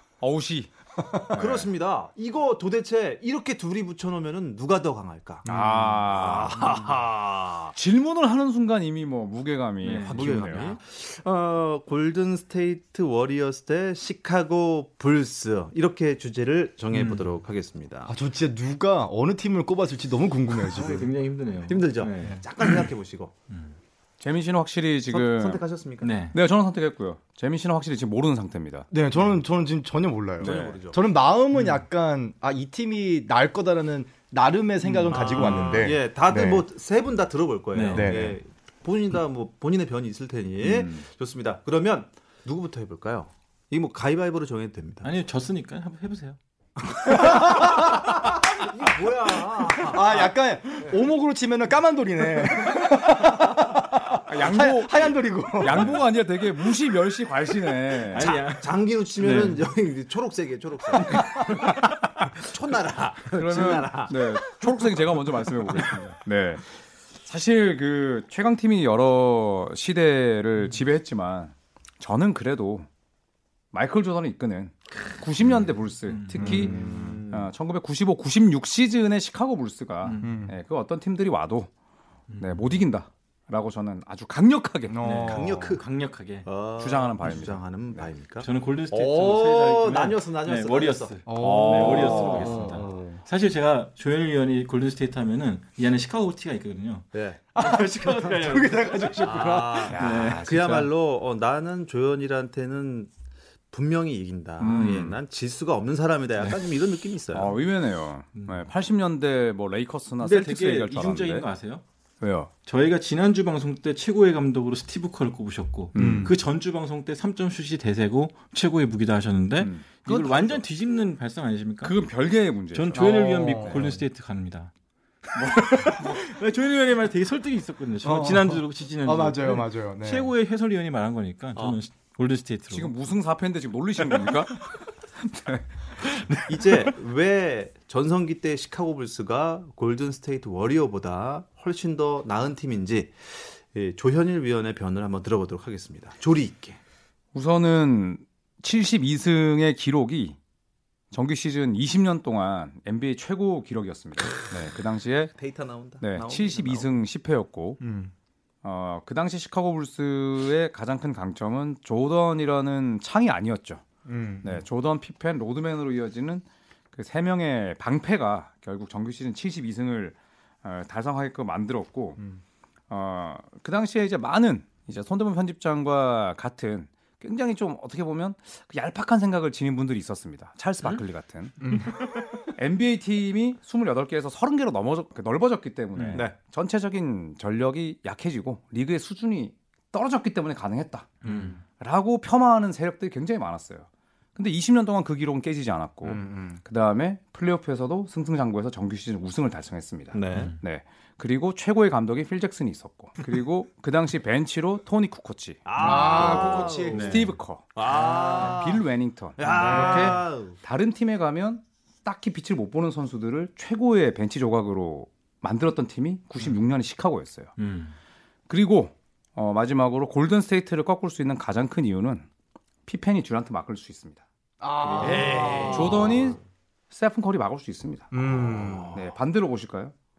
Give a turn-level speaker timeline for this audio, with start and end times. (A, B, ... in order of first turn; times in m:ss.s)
0:00.2-0:01.7 A
0:01.0-0:01.4 B
0:01.3-0:05.5 C
0:05.4-0:06.0 B
0:05.4-0:06.7 A
0:06.0-0:07.7 C
0:07.7-0:10.8 A
0:09.8-0:10.7 D
0:10.1-0:18.1 C
0:16.9-0:17.2 D
0:18.1-0:21.1 B
0:20.7-0:22.4 D
0:21.6-0:23.3 C
0:24.2-0:25.6 A
0:25.1-0:26.1 C
0:26.0-0:26.4 D
0:26.3-0:28.9 A
0:28.9-0:36.6 B
0:30.4-0:30.8 A
0:30.4-0:31.0 C
0:34.9-0:45.1 C
0:37.7-0:38.1 D
0:37.9-0:38.4 B
0:40.6-0:41.0 A
0:45.0-0:46.4 D
0:46.8-0:51.0 C
0:47.1-0:48.3 B
0:49.9-0:56.0 B
0:54.2-0:58.3 A
0:55.7-0:56.0 C
0:58.1-0:59.6 D
0:58.1-1:05.0 C
1:01.5-1:01.8 A
1:03.3-1:06.7 A
1:05.7-1:06.0 C
1:07.2-1:12.9 A
1:13.7-1:21.7 A
1:16.1-1:16.8 D
1:16.4-1:17.2 B
1:16.4-1:17.5 C
1:20.0-1:20.4 D
1:20.2-1:20.5 B
1:22.3-1:22.8 D
1:22.4-1:25.4 A
1:24.9-1:25.8 B
1:25.0-1:26.4 D
1:25.2-1:25.8 C
1:26.4-1:31.2 C
1:26.8-1:28.1 A
1:28.4-1:39.3 D
1:31.2-1:33.2 B
1:31.4-1:32.8 A
1:37.1-1:37.4 C
1:37.5-1:40.0 B
1:39.2-1:43.1 C
1:39.9-1:40.7 A
1:40.0-1:40.9 D
1:43.7-1:47.5 C
1:44.6-1:45.2 A
1:47.3-1:51.4 A
1:48.3-1:48.6 D
1:50.2-1:51.8 D
1:52.2-1:52.5 A
1:52.6-2:01.9 D
1:55.9-1:56.3 A
1:56.0-1:56.3 B
1:59.6-2:00.6 A
2:01.8-2:03.9 A
2:02.7-2:04.7 D
2:02.9-2:04.0 B
2:05.3-2:06.2 A
2:05.8-2:12.9 D
2:08.0-2:10.3 B
2:12.7-2:15.6 A
2:16.1-2:16.4 B
2:16.5-2:26.8 C
2:27.3-2:30.4 A
2:31.1-2:35.3 A
2:35.4-2:36.9 C
2:36.0-2:37.8 A
2:37.8-2:38.1 B
2:38.6-2:43.8 A
2:44.0-2:44.6 B
2:44.4-2:52.3 A
2:52.9-3:37.5 A
3:01.6-3:02.4 B
3:05.9-3:06.2 D
3:11.2-3:11.6 D
3:11.2-3:11.6 B
3:16.0-3:16.6 B
3:20.1-3:20.6 C
3:25.6-3:27.2 C
3:25.8-3:27.3 B
3:26.9-3:27.4 D
3:27.7-3:28.8 C
3:27.9-3:28.6 B
3:29.4-3:30.6 C
3:29.4-3:30.3 B
3:37.6-3:37.9 D
3:38.5-3:42.3 A
3:42.8-3:44.2 A
3:44.6-3:46.3 B
3:44.8-3:46.4 A
3:44.9-3:46.4 C
3:46.9-3:49.9 A
3:48.1-3:49.0 B
3:48.5-3:49.0 C